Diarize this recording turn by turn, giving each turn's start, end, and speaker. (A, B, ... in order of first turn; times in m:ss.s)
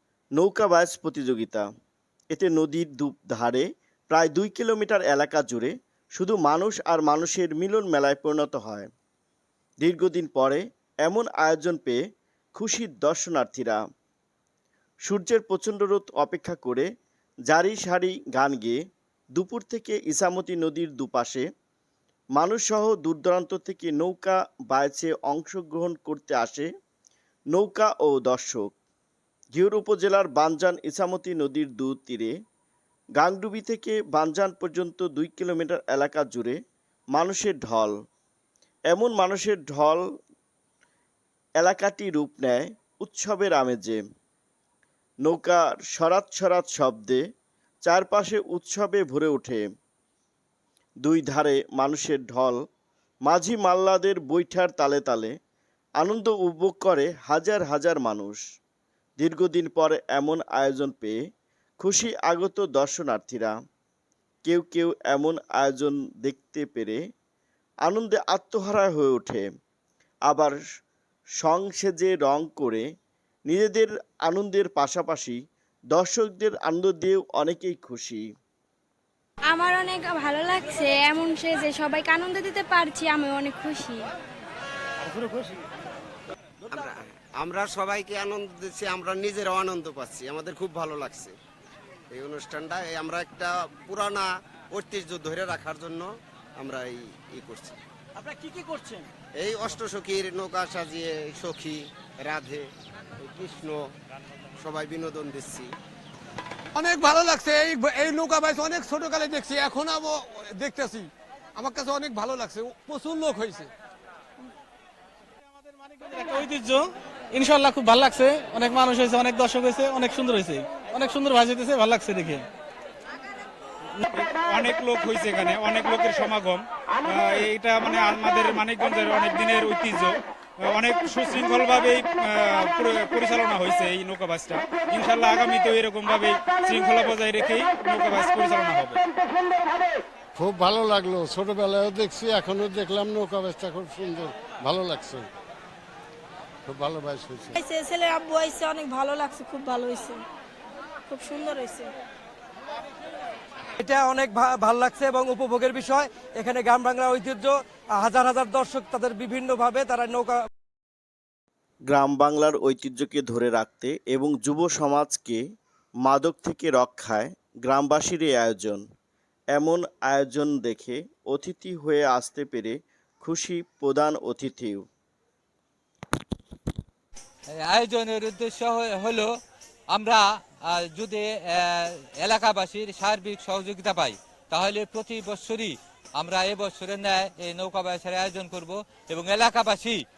0:00.4-0:01.7 A
0:02.3-0:08.9 A
0:09.8-0:12.0 A
0:12.6-0:13.8 A
0:15.1-0:16.9 A
0:17.5-0:18.8 A
0:19.4-0:21.5 A
0:22.4-0:26.7 A
0:27.5-0:28.7 A
0:29.5-0:32.4 A
0:33.2-0:36.6 A
0:37.1-0:38.0 A
0:38.9-0:40.0 A
0:41.6-0:44.0 A
0:45.2-0:47.2 A
0:47.8-0:49.6 A
0:51.0-0:52.6 A
0:53.3-0:55.3 A
0:56.0-0:58.4 A
0:59.2-1:01.2 A
1:01.8-1:03.5 A
1:04.5-1:07.0 A
1:07.8-1:09.5 A
1:10.3-1:10.6 A
1:11.4-1:12.8 A
1:13.5-1:15.4 A
1:15.9-1:18.2 A
1:19.5-1:24.1 B
1:26.7-1:31.4 C
1:32.1-1:37.8 C
1:38.2-1:39.0 D
1:39.4-1:42.7 C
1:43.2-1:43.8 C
1:44.6-1:45.7 C
1:46.8-1:53.7 E
1:55.8-2:02.5 F
2:04.1-2:19.0 G
2:20.4-2:25.3 H
2:26.7-2:27.5 H
2:27.6-2:30.2 I
2:31.1-2:31.9 I
2:33.8-2:40.4 D
2:41.9-2:45.4 A
2:46.0-2:48.8 A
2:49.5-2:54.8 A
2:57.6-2:59.3 J
2:59.9-3:10.0 J